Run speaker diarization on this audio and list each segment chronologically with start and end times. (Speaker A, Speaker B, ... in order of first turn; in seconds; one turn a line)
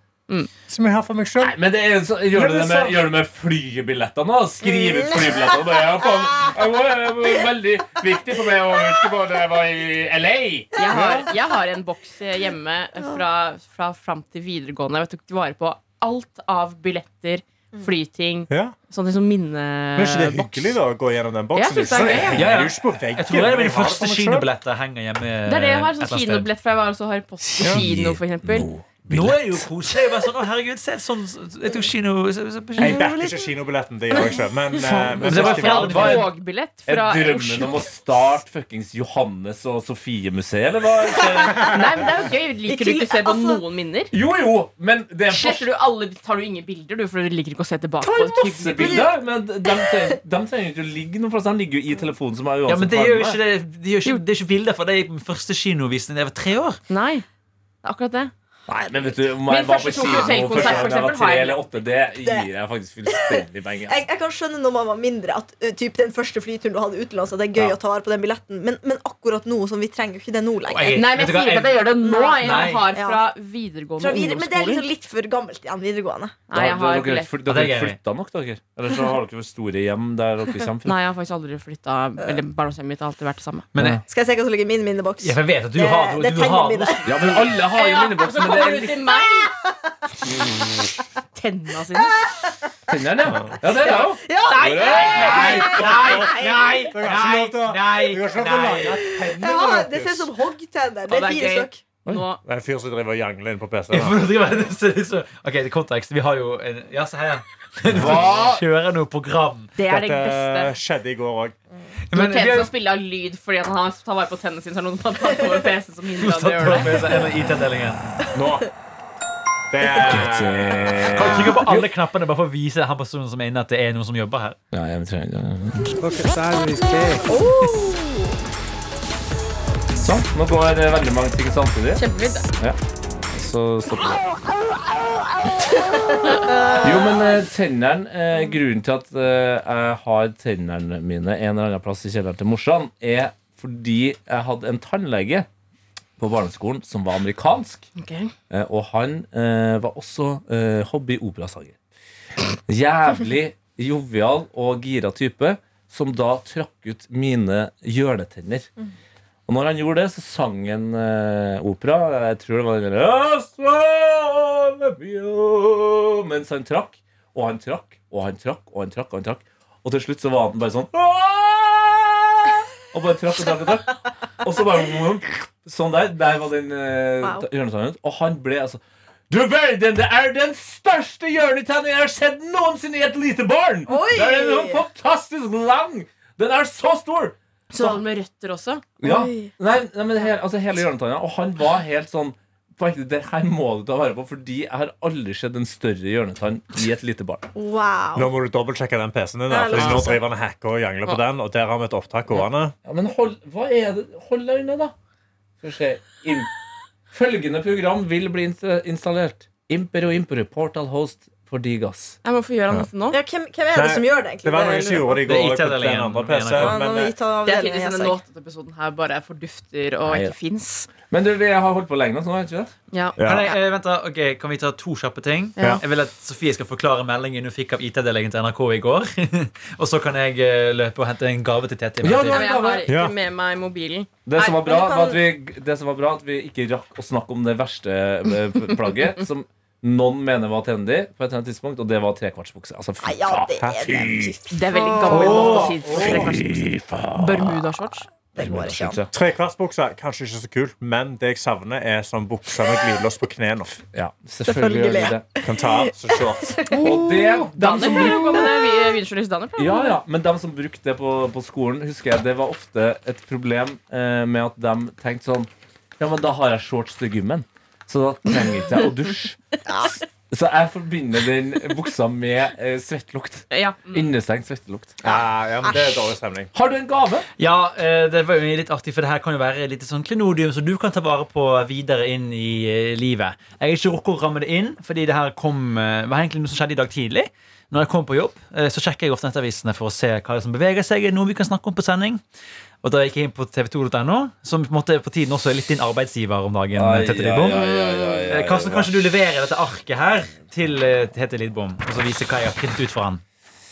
Speaker A: 0.7-1.5
Speaker B: 1.4-10.8
Speaker A: 2.3-3.0
Speaker C: 5.2-5.5
Speaker D: 10.8-20.8
Speaker A: 10.9-11.3
Speaker A: 18.5-18.7
Speaker A: 19.9-24.5
Speaker D: 21.5-22.4
Speaker E: 22.3-26.5
Speaker D: 25.4-28.7
Speaker B: 27.7-29.6
Speaker E: 29.1-33.0
Speaker A: 32.8-36.2
Speaker C: 32.8-33.4
Speaker E: 34.8-36.3
Speaker D: 35.2-37.8
Speaker B: 35.3-36.3
Speaker B: 36.9-41.8
Speaker D: 41.6-44.1
Speaker C: 42.6-43.6
Speaker B: 44.1-45.7
Speaker D: 45.3-49.1
Speaker C: 48.0-49.1
Speaker B: 48.1-53.4
Speaker C: 49.6-50.2
Speaker E: 52.7-56.8
Speaker D: 56.9-57.2
Speaker D: 57.8-58.3
Speaker B: 58.7-64.0
Speaker D: 59.5-61.6
Speaker C: 60.0-60.9
Speaker C: 62.2-62.5
Speaker C: 63.1-71.1
Speaker E: 70.7-72.9
Speaker D: 70.9-74.8
Speaker C: 72.0-73.2
Speaker C: 74.0-76.4
Speaker D: 76.5-77.3
Speaker B: 76.5-81.0
Speaker E: 77.5-78.0
Speaker D: 80.8-83.7
Speaker E: 83.7-84.0
Speaker B: 83.8-84.0
Speaker C: 84.1-87.4
Speaker E: 85.2-87.5
Speaker B: 87.0-89.1
Speaker D: 87.7-89.5
Speaker C: 89.3-90.5
Speaker D: 91.3-92.2
Speaker B: 92.9-95.7
Speaker C: 93.7-96.2
Speaker D: 94.7-96.9
Speaker E: 94.9-99.1
Speaker A: 95.2-100.3
Speaker C: 99.0-101.8
Speaker D: 101.1-102.4
Speaker A: 102.1-104.3
Speaker E: 103.9-109.8
Speaker B: 107.9-108.6
Speaker D: 109.8-110.7
Speaker A: 109.8-111.6
Speaker E: 112.1-112.7
Speaker D: 112.1-117.1
Speaker E: 116.2-118.1
Speaker A: 118.3-118.7
Speaker A: 119.7-121.1
Speaker B: 120.0-121.9
Speaker E: 121.1-124.6
Speaker C: 121.3-121.6
Speaker B: 124.7-125.9
Speaker A: 126.0-127.2
Speaker C: 127.3-128.2
Speaker B: 130.0-132.0
Speaker D: 131.9-132.4
Speaker B: 133.3-134.2
Speaker C: 135.9-136.9
Speaker B: 136.8-145.5
Speaker B: 146.2-147.9
Speaker D: 147.9-148.3
Speaker B: 148.5-151.8
Speaker B: 152.7-158.7
Speaker B: 159.5-188.0
Speaker C: 183.9-184.8
Speaker D: 187.7-188.8
Speaker B: 189.0-197.5
Speaker C: 189.0-189.5
Speaker C: 197.5-198.3
Speaker A: 198.2-202.7
Speaker C: 199.5-200.2
Speaker D: 199.7-200.0
Speaker B: 202.8-204.9
Speaker B: 205.6-206.5
Speaker B: 207.1-212.2
Speaker D: 212.2-213.2
Speaker C: 213.1-215.2
Speaker A: 213.7-217.1
Speaker E: 215.2-216.8
Speaker C: 216.5-218.2
Speaker D: 217.4-220.9
Speaker B: 220.0-220.3
Speaker B: 221.1-222.7
Speaker D: 222.9-223.6
Speaker A: 223.2-223.5
Speaker E: 223.2-232.5
Speaker B: 232.0-232.9
Speaker D: 232.3-234.6
Speaker A: 232.8-233.1
Speaker B: 234.2-244.3
Speaker C: 234.4-235.2
Speaker C: 243.0-245.8
Speaker D: 244.5-248.1
Speaker A: 245.1-246.3
Speaker B: 245.1-247.6
Speaker C: 248.3-249.0
Speaker B: 248.4-249.1
Speaker A: 249.1-253.8
Speaker B: 253.9-255.2
Speaker C: 254.4-257.0
Speaker A: 255.4-256.7
Speaker D: 256.7-260.0
Speaker B: 256.8-258.4
Speaker C: 257.7-258.9
Speaker B: 259.6-274.9
Speaker C: 269.6-270.0
Speaker D: 273.5-274.1
Speaker C: 275.0-276.1
Speaker A: 275.0-276.5
Speaker B: 276.5-277.3
Speaker E: 277.4-292.2
Speaker E: 292.8-297.6
Speaker B: 296.7-299.0
Speaker D: 297.5-298.3
Speaker E: 298.3-303.2